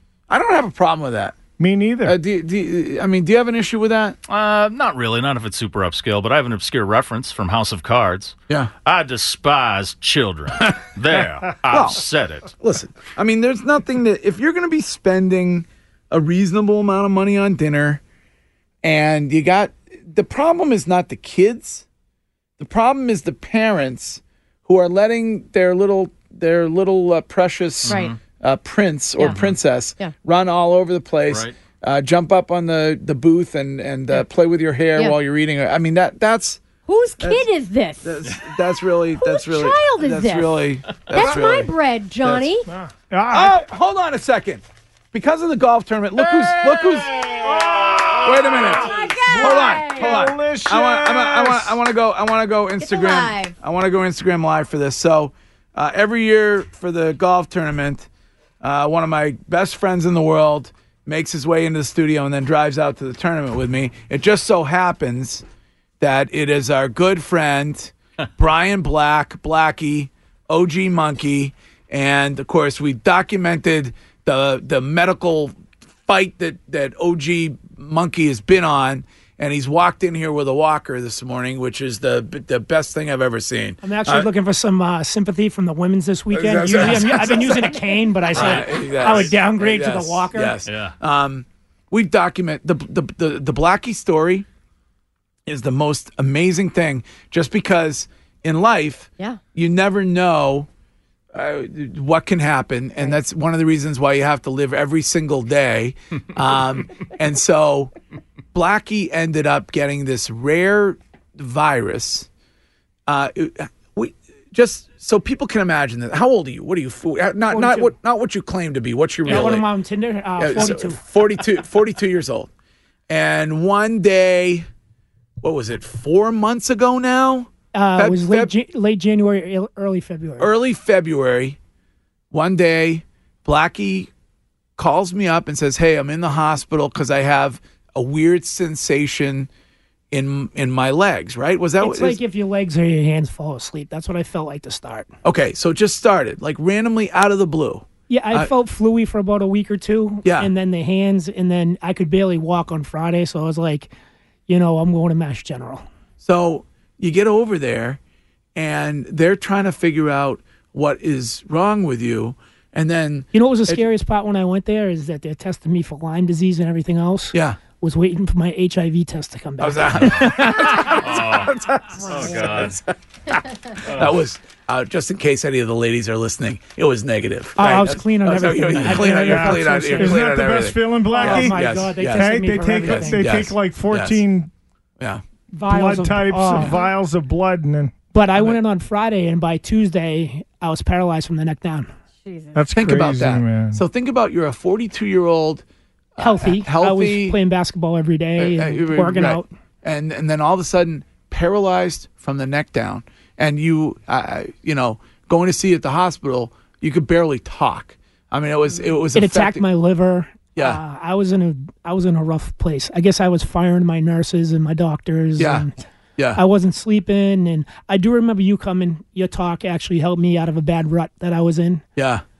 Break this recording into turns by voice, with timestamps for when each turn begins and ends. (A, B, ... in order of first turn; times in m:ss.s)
0:00.3-0:01.4 A
0:01.6-0:02.2 B
0:02.0-0:04.2 A
0:04.3-0:12.5 C
0:11.7-0:12.0 A
0:12.6-0:18.0 A
0:18.8-0:21.8 A
0:22.6-0:36.6 A
0:27.8-0:28.2 C
0:27.9-0:28.1 D
0:29.3-0:29.6 C
0:31.3-0:31.5 C
0:36.8-0:38.1 D
0:38.0-0:42.5 A
0:39.2-0:42.7 D
0:42.7-0:43.7 B
0:43.3-0:47.2 A
0:47.1-0:48.7 C
0:47.2-0:51.8 B
0:48.2-0:58.1 A
0:48.8-0:50.2 D
0:52.8-0:53.5 D
0:58.6-1:05.4 A
1:06.0-1:24.3 A
1:23.8-1:30.6 E
1:26.3-1:34.4 A
1:28.3-1:29.3 C
1:30.6-1:30.9 C
1:35.5-1:40.7 A
1:41.3-1:47.9 A
1:48.5-1:52.3 A
1:53.1-1:59.7 A
1:57.5-1:57.9 E
1:59.2-2:01.0 E
2:00.4-2:02.5 A
2:03.1-2:04.7 A
2:05.4-2:08.5 A
2:07.7-2:10.5 E
2:10.4-2:11.6 A
2:12.3-2:14.1 A
2:14.8-2:19.5 A
2:20.1-2:22.2 A
2:21.8-2:25.1 E
2:25.2-2:28.5 A
2:28.1-2:33.9 E
2:30.2-2:30.5 A
2:34.5-2:35.8 E
2:36.2-2:38.0 A
2:38.5-2:43.8 A
2:43.3-2:51.0 E
2:47.3-2:47.6 A
2:49.6-3:04.2 A
2:50.8-2:52.8 C
2:52.0-2:52.4 D
2:53.8-2:54.2 C
2:57.6-3:00.3 E
2:59.2-3:04.5 B
3:01.1-3:03.3 E
3:05.5-3:06.8 E
3:05.7-3:08.0 B
3:08.1-3:11.9 E
3:12.2-3:12.6 D
3:12.5-3:13.8 B
3:12.7-3:15.6 A
3:16.2-3:17.4 A
3:16.2-3:19.5 E
3:18.4-3:29.6 A
3:29.1-3:35.8 E
3:30.5-3:30.8 A
3:35.4-3:35.6 A
3:36.2-3:36.4 A
3:36.4-3:41.8 E
3:42.0-3:42.2 A